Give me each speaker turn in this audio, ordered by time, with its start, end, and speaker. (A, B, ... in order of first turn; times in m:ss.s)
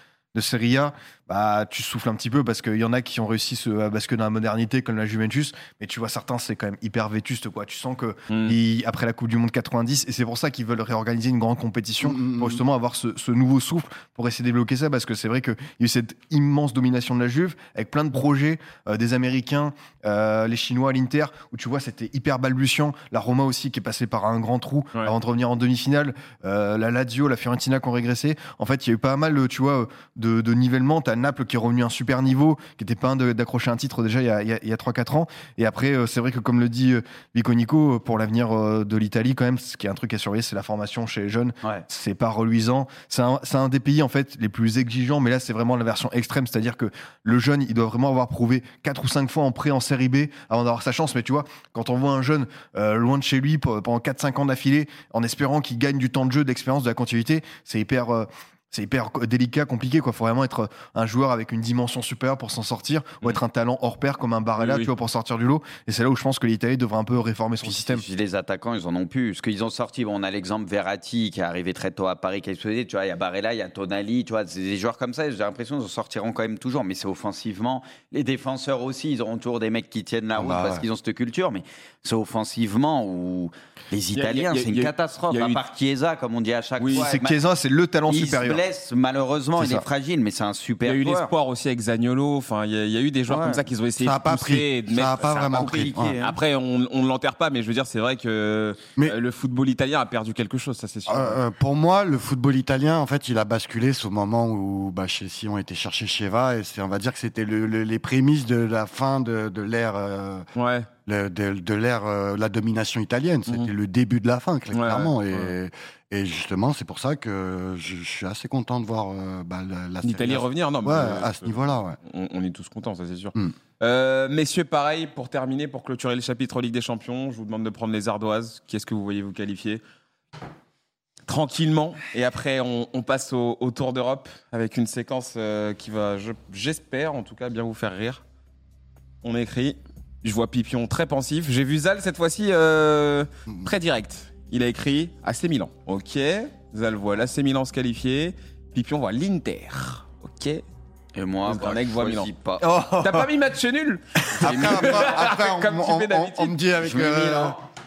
0:00.3-1:08.0 A
0:08.3-0:08.6 B
0:12.0-0:12.6 C
1:04.6-1:04.9 B
1:07.6-1:27.4 D
1:20.4-1:20.9 C
1:24.2-1:25.6 B
1:26.8-1:27.1 B
1:27.0-1:28.6 A
1:28.1-1:31.3 D
1:29.6-1:29.8 A
1:30.8-1:41.4 B
1:33.3-1:33.6 D
1:34.0-1:36.2 C
1:35.2-1:36.4 D
1:41.1-1:50.5 C
1:50.6-1:50.9 B
1:51.1-2:02.0 C
1:54.7-1:55.5 B
2:00.0-2:09.8 B
2:11.3-2:18.2 B
2:19.2-2:30.6 B
2:31.2-2:32.6 D
2:31.4-2:32.3 B
2:32.6-2:33.3 A
2:33.0-2:36.6 B
2:34.4-2:37.6 C
2:34.4-2:35.2 D
2:36.8-2:37.6 D